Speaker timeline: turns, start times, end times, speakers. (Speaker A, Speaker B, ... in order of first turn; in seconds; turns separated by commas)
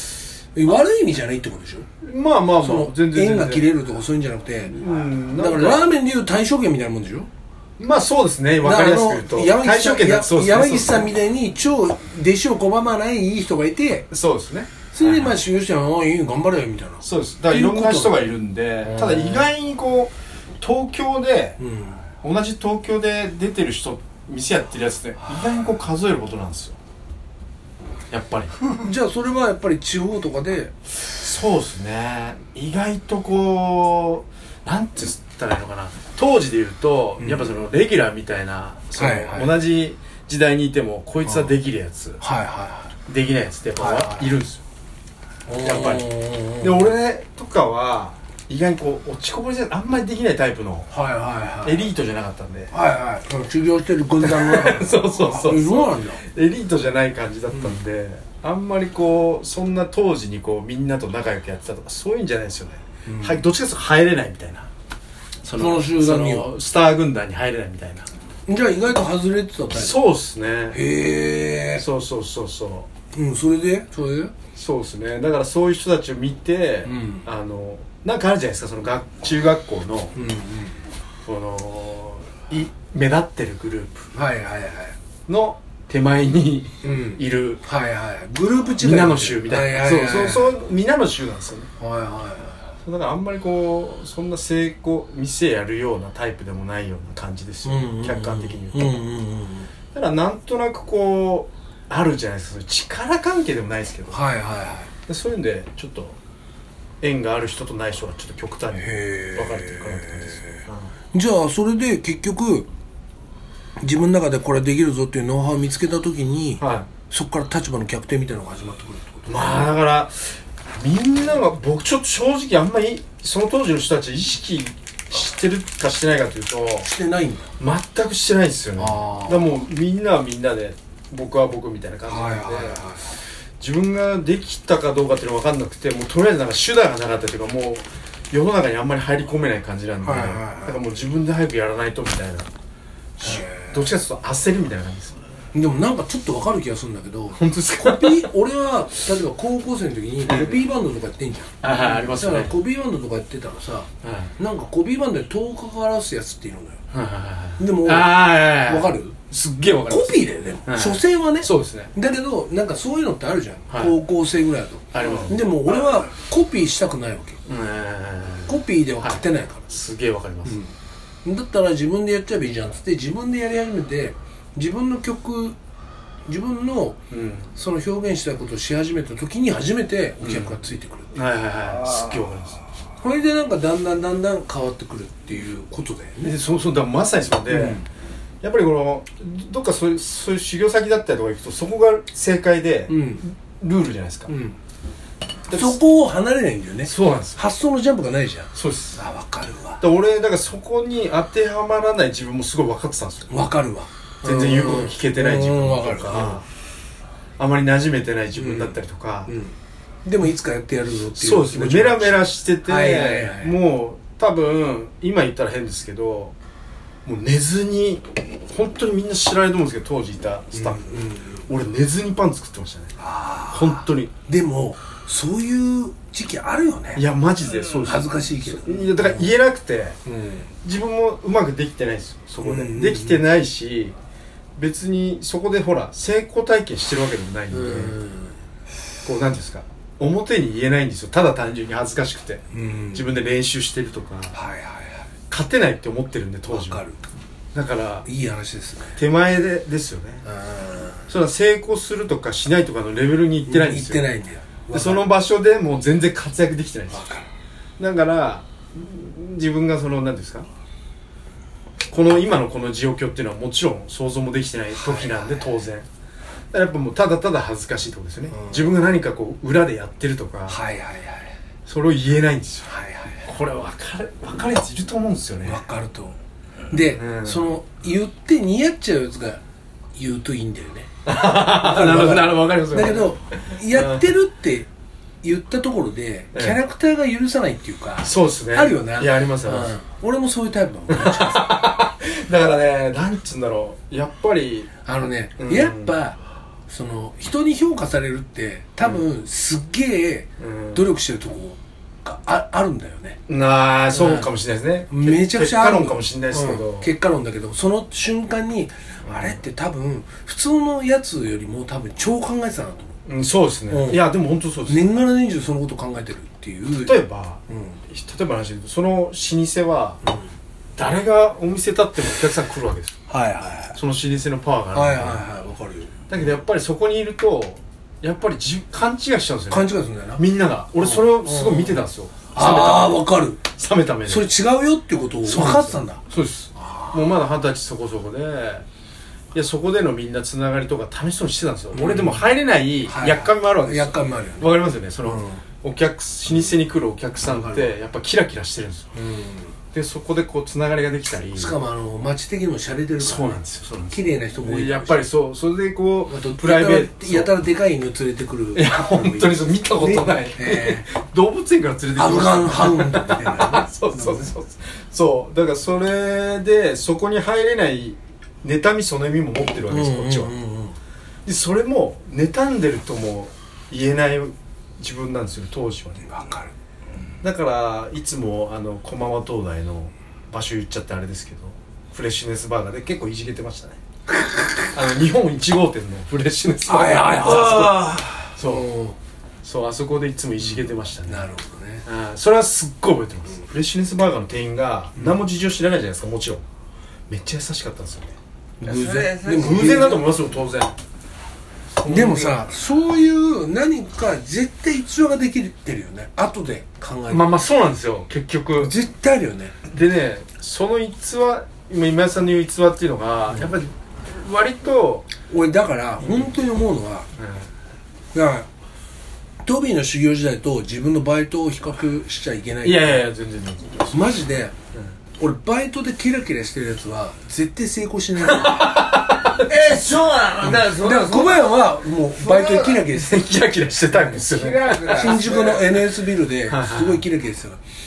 Speaker A: 0.6-1.9, Speaker B: 2.0-3.7, Speaker A: 2.6-4.8, Speaker B: 4.7-5.9, Speaker A: 5.3-7.3, Speaker B: 7.8-11.0, Speaker A: 8.6-14.1, Speaker B: 14.1-15.4, Speaker A: 14.9-18.2, Speaker B: 17.0-21.6, Speaker A: 18.8-19.5, Speaker A: 21.6-22.0, Speaker B: 22.2-26.8, Speaker B: 28.1-28.5, Speaker A: 28.8-30.7, Speaker B: 31.2-42.2, Speaker A: 37.2-37.5, Speaker A: 39.0-39.5, Speaker A: 41.2-41.6, Speaker A: 42.2-42.9, Speaker B: 43.1-44.6, Speaker A: 43.8-44.4, Speaker A: 45.5-47.0, Speaker B: 45.6-46.1, Speaker B: 46.6-50.9, Speaker A: 50.9-51.9, Speaker B: 51.6-52.7, Speaker A: 52.7-56.3, Speaker B: 54.2-64.7, Speaker A: 57.5-57.8, Speaker A: 63.1-63.4, Speaker A: 65.4-66.5, Speaker B: 65.5-68.1, Speaker A: 68.5-70.0, Speaker B: 69.7-70.8, Speaker A: 70.7-71.9, Speaker B: 71.8-72.9, Speaker A: 73.1-74.3, Speaker B: 74.5-80.2, Speaker A: 76.8-77.3, Speaker A: 80.2-80.8, Speaker B: 81.2-84.1, Speaker A: 84.1-85.0, Speaker B: 85.3-87.6, Speaker A: 86.8-90.6, Speaker B: 88.8-91.7, Speaker A: 91.8-92.7, Speaker B: 92.8-98.9, Speaker A: 97.7-99.7, Speaker B: 99.9-104.2, Speaker A: 104.1-104.9, Speaker B: 105.1-106.2, Speaker B: 107.0-110.9, Speaker A: 108.7-112.7, Speaker A: 113.8-119.7, Speaker B: 116.6-116.9, Speaker B: 119.3-126.9, Speaker A: 126.8-127.5, Speaker B: 127.6-133.0, Speaker A: 128.8-129.6, Speaker A: 132.1-133.1, Speaker B: 133.6-142.5, Speaker A: 140.0-140.8, Speaker B: 143.2-145.2, Speaker A: 143.2-143.9, Speaker A: 145.5-156.8, Speaker B: 147.3-148.3, Speaker B: 150.3-150.6, Speaker B: 151.6-152.5, Speaker B: 154.0-154.3, Speaker B: 156.9-161.9, Speaker A: 157.6-159.2, Speaker A: 159.9-167.4, Speaker B: 163.7-164.0, Speaker B: 164.9-165.4, Speaker B: 167.5-170.6, Speaker A: 168.5-169.7, Speaker A: 170.4-175.6, Speaker A: 176.3-177.0, Speaker B: 177.1-177.5, Speaker A: 177.5-181.1, Speaker B: 180.2-182.6, Speaker A: 183.0-186.4, Speaker B: 186.2-187.8, Speaker A: 187.5-187.8, Speaker B: 188.4-194.3, Speaker A: 192.9-193.2, Speaker A: 194.3-194.6, Speaker B: 195.5-195.8, Speaker A: 195.5-199.8, Speaker B: 196.8-197.4, Speaker B: 198.6-199.0, Speaker B: 199.8-203.3, Speaker A: 203.3-206.4, Speaker B: 204.2-206.4, Speaker B: 207.4-209.3, Speaker A: 208.4-213.6, Speaker B: 211.1-216.3, Speaker B: 217.1-220.9, Speaker A: 220.5-221.4, Speaker B: 221.5-222.9, Speaker A: 223.0-227.1, Speaker B: 223.5-224.1, Speaker B: 226.9-230.0, Speaker A: 227.8-229.3, Speaker A: 230.1-230.5, Speaker B: 230.6-234.0, Speaker A: 232.4-233.2, Speaker B: 234.6-238.0, Speaker A: 237.5-238.4, Speaker B: 239.0-244.4, Speaker A: 242.5-243.1, Speaker A: 244.3-245.1, Speaker B: 245.3-246.8, Speaker A: 246.5-247.0, Speaker B: 247.5-248.1, Speaker A: 248.1-249.0, Speaker B: 249.0-250.2, Speaker A: 250.2-251.1, Speaker B: 251.1-254.1, Speaker A: 253.4-255.1, Speaker B: 254.7-257.1, Speaker A: 256.9-257.3, Speaker B: 257.8-260.5, Speaker B: 261.9-265.9, Speaker A: 264.8-265.5, Speaker B: 266.5-270.6, Speaker A: 268.3-268.8, Speaker A: 270.5-271.3, Speaker B: 271.7-272.7, Speaker A: 272.7-273.3, Speaker B: 273.2-275.6, Speaker A: 275.4-276.2, Speaker A: 276.7-279.4, Speaker B: 276.8-277.5, Speaker A: 279.9-284.7, Speaker B: 281.1-284.1, Speaker A: 285.2-291.6, Speaker B: 286.3-286.6, Speaker B: 288.0-289.8, Speaker B: 290.9-294.7, Speaker A: 294.8-303.2, Speaker B: 295.4-296.0, Speaker B: 300.4-300.9, Speaker B: 303.3-306.9, Speaker A: 303.9-304.3, Speaker A: 304.9-312.9, Speaker B: 309.0-309.4, Speaker B: 313.1-314.9, Speaker A: 313.7-314.0, Speaker A: 314.7-317.8, Speaker B: 316.9-320.0, Speaker A: 320.0-320.3, Speaker B: 320.8-323.0, Speaker A: 323.1-323.8, Speaker B: 323.7-325.3, Speaker A: 324.7-325.9, Speaker B: 326.1-334.3, Speaker A: 329.5-330.2, Speaker A: 330.8-333.4, Speaker A: 334.1-336.0, Speaker B: 335.2-338.7, Speaker A: 336.6-337.1, Speaker B: 339.3-348.9, Speaker A: 341.7-342.3, Speaker A: 342.9-345.4, Speaker A: 347.2-347.7, Speaker A: 348.9-349.6, Speaker B: 349.7-351.6, Speaker A: 351.3-355.1, Speaker B: 353.0-357.3, Speaker A: 356.1-360.8, Speaker B: 358.5-370.3, Speaker A: 362.0-364.3, Speaker A: 369.7-370.8, Speaker B: 371.2-376.1, Speaker A: 376.1-376.5, Speaker B: 377.2-383.8, Speaker A: 384.2-384.7, Speaker B: 384.7-388.7, Speaker A: 386.7-389.0, Speaker B: 389.4-391.3, Speaker A: 390.4-391.9, Speaker B: 391.9-396.4, Speaker A: 395.0-395.2, Speaker B: 397.1-398.2, Speaker A: 398.6-400.1, Speaker C: 398.6-399.8, Speaker B: 399.4-400.8, Speaker B: 401.8-402.5, Speaker A: 401.9-407.3, Speaker B: 407.1-408.7, Speaker A: 408.6-409.6, Speaker B: 409.7-415.1, Speaker A: 413.3-413.6, Speaker A: 415.3-417.1, Speaker B: 416.0-416.3, Speaker B: 417.2-417.5, Speaker A: 418.1-418.5, Speaker A: 419.4-423.0, Speaker B: 422.6-424.2, Speaker A: 423.9-424.5, Speaker A: 425.2-428.9, Speaker B: 428.4-429.6, Speaker C: 429.4-431.5, Speaker A: 430.4-433.3, Speaker C: 432.0-432.9, Speaker B: 432.9-435.3, Speaker C: 434.1-435.7, Speaker A: 434.8-437.6, Speaker B: 436.5-437.1